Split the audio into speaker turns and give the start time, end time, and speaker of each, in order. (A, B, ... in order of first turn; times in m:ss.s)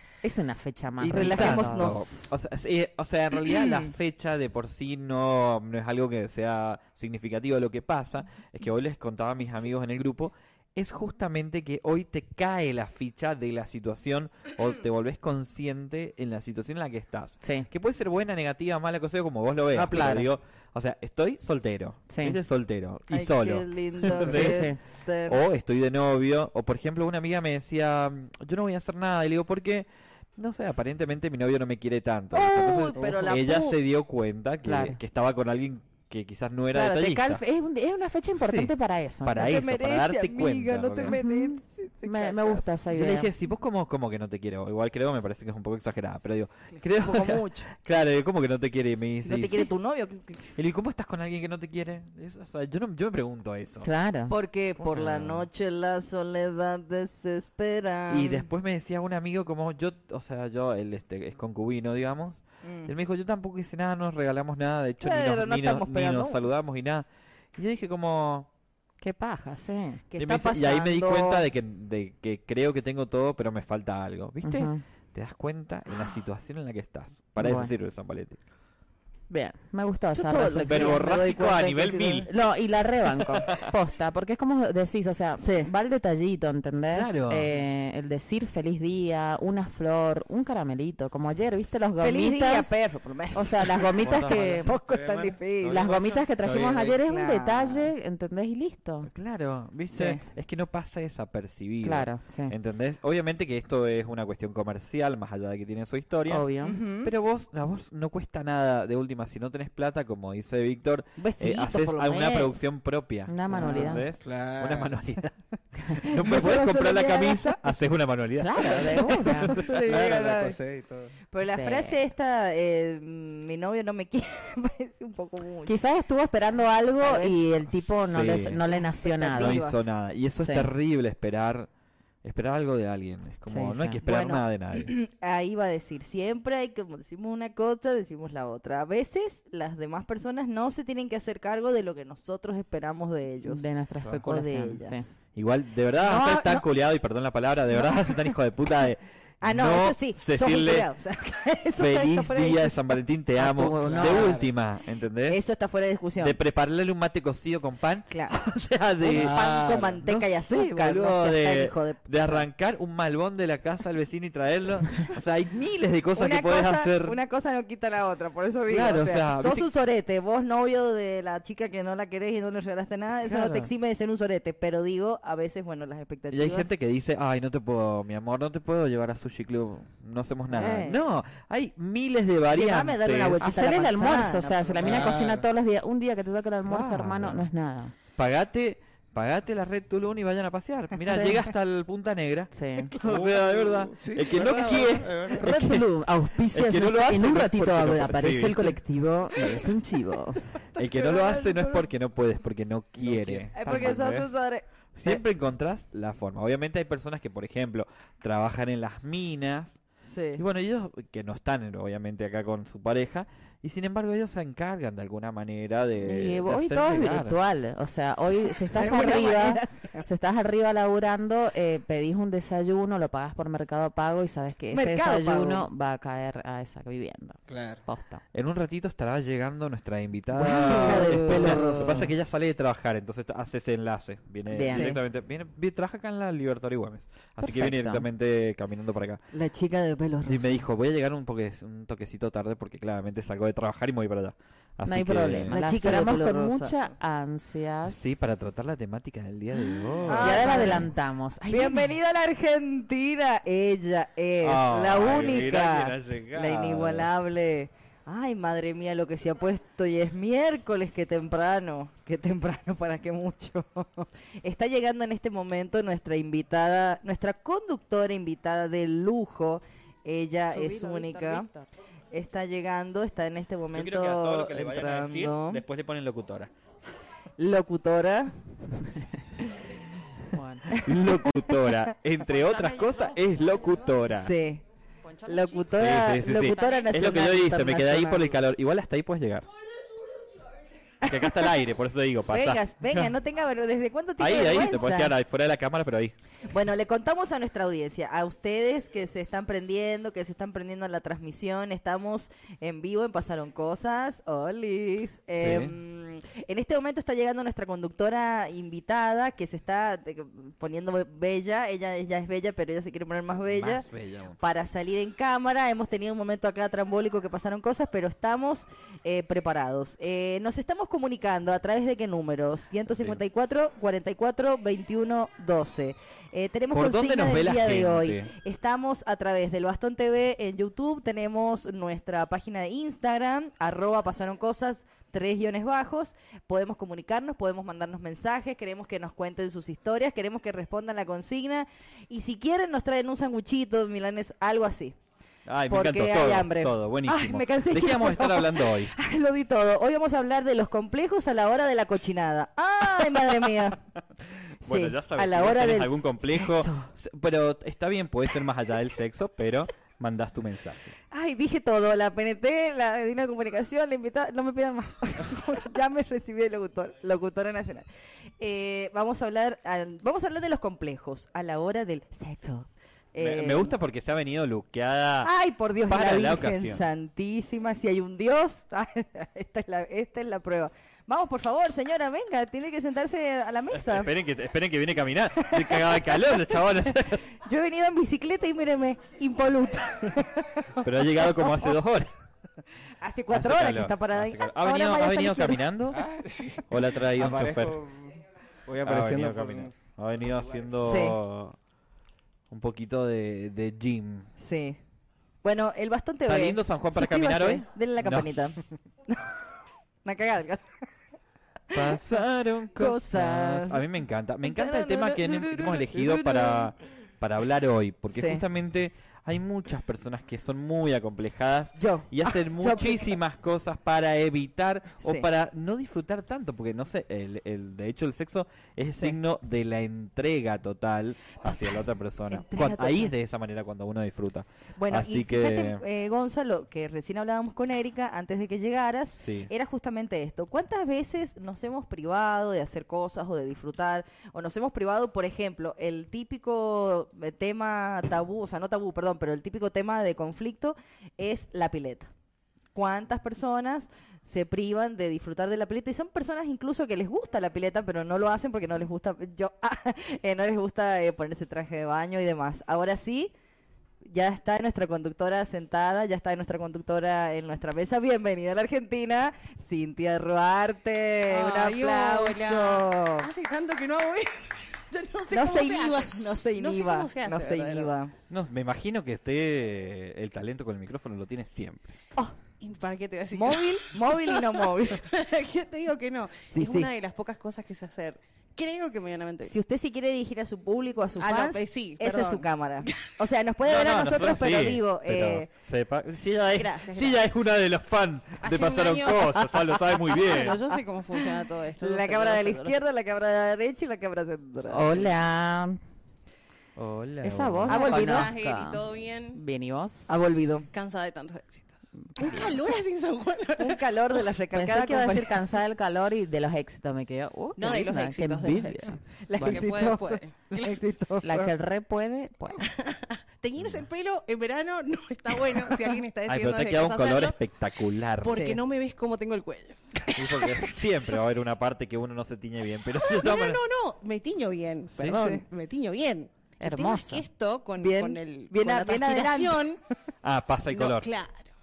0:00.2-0:02.0 A
0:01.0-0:24.7 B
0:01.1-0:02.3 C
0:03.5-0:03.9 C
0:17.4-0:17.7 A
0:19.7-0:20.3 A
0:19.9-0:20.2 C
0:22.1-0:22.4 A
0:23.1-0:25.4 C
0:24.1-0:24.8 A
0:25.3-0:37.4 B
0:32.3-0:33.8 C
0:34.6-0:35.0 A
0:36.7-0:39.6 A
0:38.4-0:41.2 B
0:39.4-0:42.7 C
0:41.0-0:43.3 A
0:42.9-0:49.7 B
0:46.8-0:47.7 C
0:49.2-0:50.5 C
0:50.6-0:53.9 B
0:53.8-0:54.3 A
0:54.3-0:58.5 C
0:54.8-0:55.5 B
0:58.1-1:08.5 B
1:02.6-1:02.9 C
1:05.0-1:06.4 C
1:09.0-1:10.0 A
1:10.1-1:11.4 C
1:10.2-1:18.4 B
1:14.4-1:14.8 A
1:17.4-1:17.7 A
1:19.3-1:21.2 A
1:20.1-1:22.3 C
1:20.7-1:22.3 B
1:22.3-1:32.8 A
1:25.4-1:25.7 C
1:26.9-1:27.5 B
1:32.0-1:36.0 C
1:33.3-1:34.7 A
1:34.0-1:34.7 B
1:34.9-1:35.4 D
1:35.6-1:39.1 A
1:36.4-1:37.0 D
1:37.0-1:37.9 C
1:39.0-1:46.5 B
1:39.9-1:40.2 C
1:41.8-1:42.5 A
1:46.3-1:46.8 A
1:46.6-1:47.1 C
1:47.0-1:55.4 B
1:51.2-1:52.5 C
1:53.3-1:54.1 A
1:53.5-1:55.0 D
1:55.9-1:56.6 A
1:56.0-1:59.8 B
1:56.0-1:57.6 C
1:58.4-1:59.6 A
1:58.9-2:00.6 C
1:59.8-2:01.2 D
2:01.3-2:05.8 C
2:01.4-2:02.0 A
2:05.6-2:09.6 A
2:07.0-2:07.4 C
2:08.1-2:08.6 B
2:08.7-2:09.8 C
2:09.3-2:11.7 B
2:10.4-2:10.7 A
2:12.2-2:14.9 B
2:13.5-2:14.0 A
2:14.0-2:25.1 C
2:23.4-2:25.1 A
2:25.4-2:30.9 B
2:26.1-2:26.6 C
2:26.1-2:26.5 A
2:27.7-2:28.3 C
2:29.4-2:32.8 C
2:31.8-2:35.4 B
2:33.4-2:34.5 A
2:33.8-2:34.4 D
2:35.3-2:36.4 C
2:36.2-2:47.2 B
2:38.1-2:38.4 C
2:39.0-2:42.5 C
2:46.2-2:56.7 C
2:48.7-2:49.7 B
2:53.2-2:53.7 B
2:56.3-3:03.4 B
3:00.5-3:01.0 C
3:02.5-3:05.2 C
3:03.4-3:07.9 A
3:04.8-3:05.4 D
3:06.6-3:07.5 B
3:08.2-3:15.9 B
3:11.0-3:11.5 A
3:12.5-3:12.9 A
3:13.0-3:15.5 D
3:15.3-3:20.4 A
3:16.5-3:18.8 B
3:20.6-3:21.9 C
3:20.8-3:24.3 B
3:23.0-3:23.4 D
3:23.5-3:25.2 C
3:25.0-3:29.8 B
3:30.0-3:30.4 C
3:30.4-3:37.4 B
3:36.0-3:48.2 A
3:38.7-3:40.1 C
3:44.7-3:45.7 C
3:47.5-3:47.8 D
3:48.3-3:59.2 B
3:50.3-3:52.1 A
3:50.5-3:52.0 C
3:54.5-3:54.9 A
3:54.7-3:55.0 C
3:57.4-3:58.1 A
3:59.3-4:00.6 C
4:00.3-4:06.0 B
4:04.9-4:08.5 A
4:05.5-4:06.8 C
4:07.9-4:10.9 B
4:10.1-4:10.9 C
4:10.1-4:11.9 A
4:11.5-4:31.5 C
4:14.4-4:17.1 B
4:30.5-4:31.7 A
4:32.1-4:35.6 C
4:33.7-4:36.5 B
4:37.4-4:38.3 C
4:40.3-4:40.8 A
4:40.7-4:41.5 C
4:40.8-4:44.3 B
4:42.3-4:44.0 A
4:44.2-4:44.6 C
4:45.0-4:46.8 A
4:45.3-4:48.4 C
4:45.8-4:49.5 B
4:51.0-4:51.5 C
4:51.1-4:53.1 B
4:52.3-4:55.1 C
4:54.2-4:56.1 B
4:56.5-5:13.9 C
5:05.4-5:05.8 B
5:13.5-5:14.4 B
5:14.4-5:45.0 C
5:26.7-5:28.3 B
5:45.5-5:48.9 B
5:45.7-5:53.8 C
5:54.6-5:56.9 C
5:54.6-6:00.9 B
6:01.1-6:07.9 C
6:08.4-6:13.7 C
6:13.2-6:15.3 B
6:15.2-6:24.1 C
6:15.9-6:16.8 B
6:23.8-6:27.3 B
6:25.4-6:26.6 C
6:27.4-6:31.7 C
6:30.8-6:32.1 B
6:33.0-6:35.6 C
6:33.3-6:36.0 B
6:36.0-6:36.6 D
6:36.7-6:37.8 B
6:37.1-6:39.7 D
6:38.8-6:41.6 B
6:40.8-6:41.2 C
6:42.5-6:44.3 B
6:44.4-6:44.8 C
6:45.4-6:48.6 C
6:46.3-6:48.3 B
6:50.0-6:50.9 C
6:51.7-6:52.0 C
6:51.7-7:15.8 B
6:52.8-6:53.8 C
6:54.4-6:56.7 C
6:58.1-6:58.4 C
7:01.8-7:03.1 C
7:05.0-7:05.3 C
7:11.4-7:11.8 C
7:12.3-7:13.1 C
7:14.8-7:32.1 C
7:19.2-7:19.5 B
7:32.8-7:43.3 C
7:44.1-7:53.3 C
7:51.3-7:57.9 E
7:55.3-7:58.1 C
7:58.3-8:02.0 B
8:02.6-8:09.5 E
8:03.3-8:05.0 C
8:06.5-8:06.9 C
8:09.4-8:15.5 C
8:11.2-8:13.1 E
8:13.6-8:20.6 B
8:16.6-8:17.3 E
8:18.4-8:22.8 E
8:21.8-8:25.1 C
8:24.7-8:25.8 A
8:26.8-8:27.9 B
8:27.2-8:30.1 A
8:27.7-8:28.3 C
8:27.7-8:29.4 E
8:30.1-8:30.7 C
8:30.7-8:33.8 E
8:32.2-8:32.6 A
8:33.6-8:35.4 C
8:34.5-8:39.7 A
8:37.6-8:40.7 E
8:39.3-8:41.5 C
8:41.2-8:42.7 A
8:42.7-8:47.4 E
8:43.6-8:43.9 B
8:46.3-8:48.5 B
8:48.2-8:50.6 E
8:48.3-8:48.6 C
8:50.2-8:53.6 B
8:53.1-8:59.8 E
8:54.9-8:55.3 B
8:55.1-8:55.4 C
8:56.6-8:57.2 A
8:57.8-8:59.6 C
9:00.2-9:01.1 B
9:00.7-9:01.5 E